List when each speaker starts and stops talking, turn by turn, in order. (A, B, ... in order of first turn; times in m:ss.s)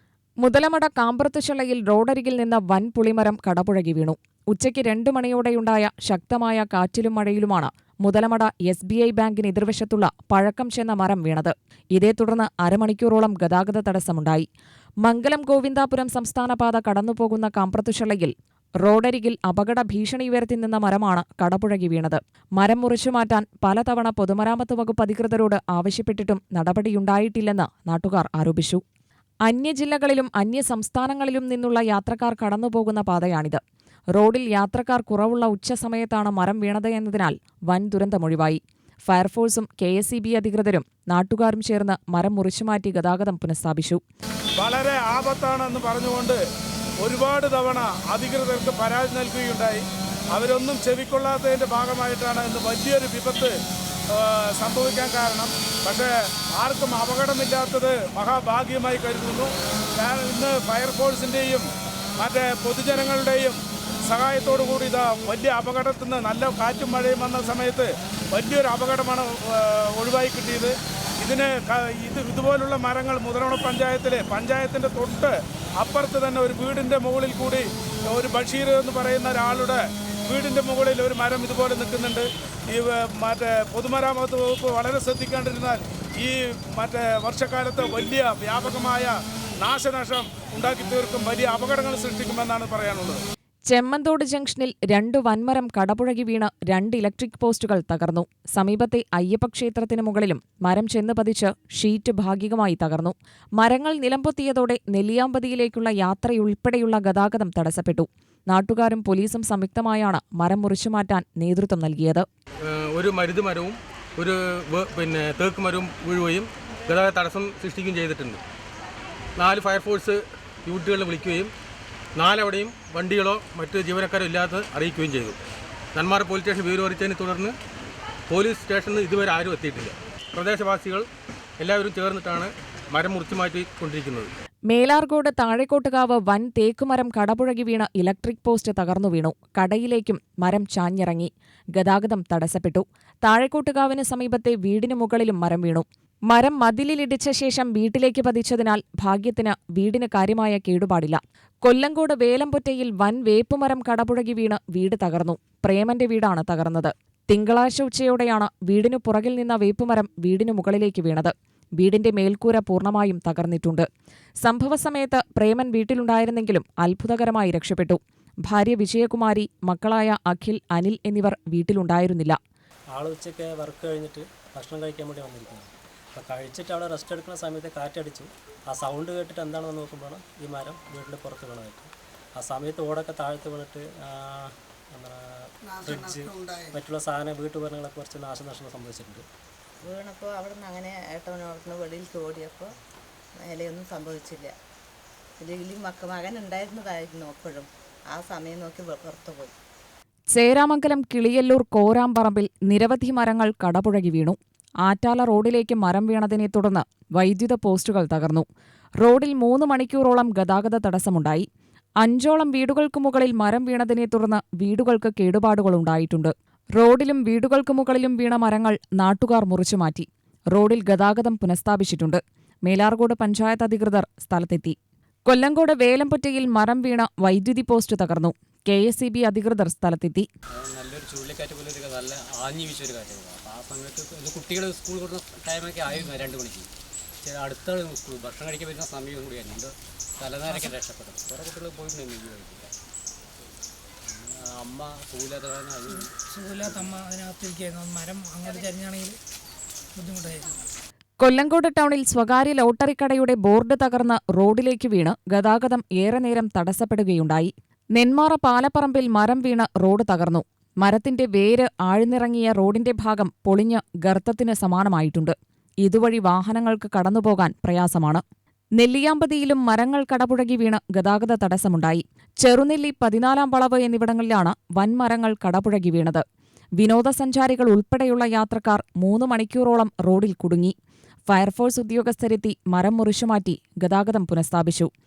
0:00.4-0:14.5 A
0:15.0-0:28.8 A
0:29.5-0:33.6 A
0:34.2-0:44.0 A
0:44.6-0:46.3 B
0:47.1-0:49.7 B
0:50.4-0:53.5 B
0:54.6-0:56.0 B
0:56.6-0:59.4 B
1:00.0-1:01.6 B
1:02.2-1:03.5 B
1:04.1-1:07.8 B
1:08.4-1:09.2 B
1:10.0-1:10.7 B
1:11.2-1:15.3 B
1:15.8-1:17.6 B
1:18.2-1:19.8 B
1:20.3-1:22.2 B
1:22.7-1:26.3 B
1:26.8-1:29.0 B
1:29.6-1:33.2 B
1:33.7-1:52.3 A
1:52.7-1:58.4 C
1:59.4-2:01.5 C
2:02.2-2:05.4 C
2:06.0-2:07.5 C
2:08.3-2:11.1 C
2:11.6-2:14.3 C
2:14.7-2:43.9 A
2:44.4-2:52.4 A
2:52.9-3:09.3 D
3:09.8-3:12.8 E
3:13.4-3:14.6 E
3:15.4-3:19.6 E
3:20.3-3:28.5 A
3:29.0-3:31.5 A
3:32.0-3:50.3 A
3:50.5-3:56.7 F
3:57.2-4:02.7 F
4:04.1-4:07.0 F
4:06.0-4:09.2 G
4:10.0-4:10.5 G
4:11.2-4:28.2 A
4:28.8-4:36.2 A
4:36.8-4:40.7 A
4:41.3-4:44.9 A